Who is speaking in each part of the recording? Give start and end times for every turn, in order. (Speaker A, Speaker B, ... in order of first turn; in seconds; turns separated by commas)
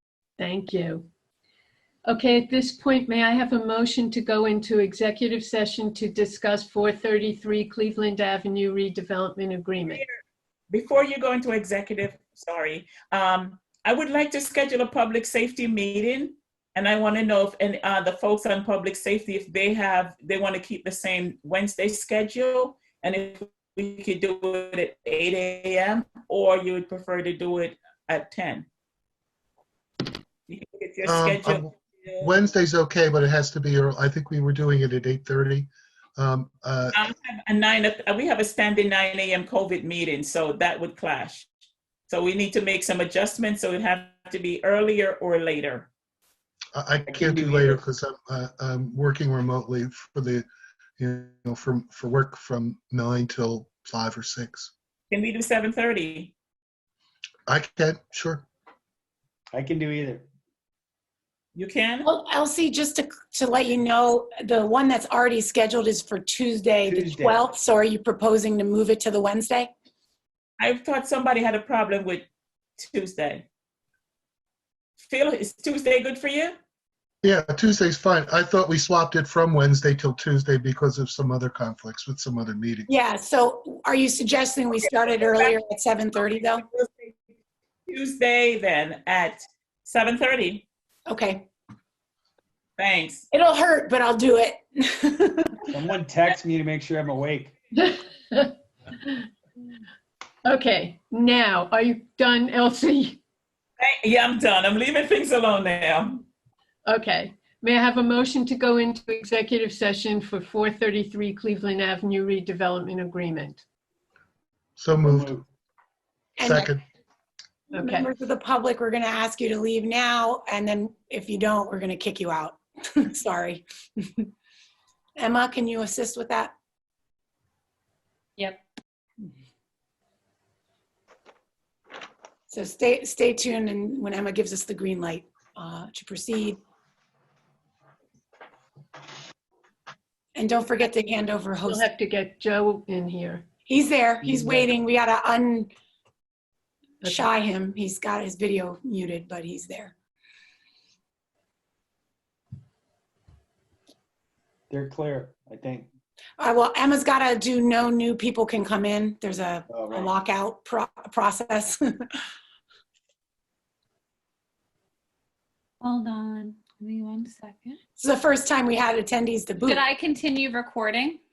Speaker A: 0.4-1.0, Speaker A: 2.0-10.0, Speaker B: 9.9-10.2, Speaker B: 10.7-28.7, Speaker B: 30.5-32.3, Speaker C: 31.0-37.0, Speaker B: 36.9-41.5, Speaker B: 42.1-45.9, Speaker C: 46.7-50.5, Speaker D: 47.1-47.8, Speaker C: 51.0-54.7, Speaker B: 55.1-56.3, Speaker C: 57.5-58.4, Speaker D: 59.5-60.2, Speaker B: 61.5-62.1, Speaker E: 62.0-69.7, Speaker D: 66.8-67.4, Speaker B: 70.6-72.3, Speaker B: 72.8-73.5, Speaker B: 75.1-76.6, Speaker C: 77.2-82.9, Speaker E: 82.9-86.6, Speaker B: 86.2-87.2, Speaker B: 87.8-90.7, Speaker E: 91.1-91.5, Speaker B: 92.8-93.2, Speaker E: 93.3-95.6, Speaker D: 95.7-97.5, Speaker A: 97.8-99.2, Speaker A: 100.5-103.2, Speaker B: 103.8-106.2, Speaker A: 106.8-113.6, Speaker C: 114.8-115.3, Speaker D: 115.0-115.4, Speaker E: 116.4-116.7, Speaker C: 116.4-116.8, Speaker A: 117.7-118.1, Speaker E: 117.7-124.3, Speaker E: 125.2-126.5, Speaker E: 132.5-136.6, Speaker E: 140.3-141.8, Speaker A: 141.6-143.4, Speaker E: 143.7-145.7, Speaker D: 144.3-144.7, Speaker E: 147.0-149.9, Speaker D: 154.7-155.9, Speaker E: 156.4-161.9, Speaker D: 159.7-160.1, Speaker F: 165.8-167.8, Speaker E: 168.0-169.8, Speaker F: 169.7-171.2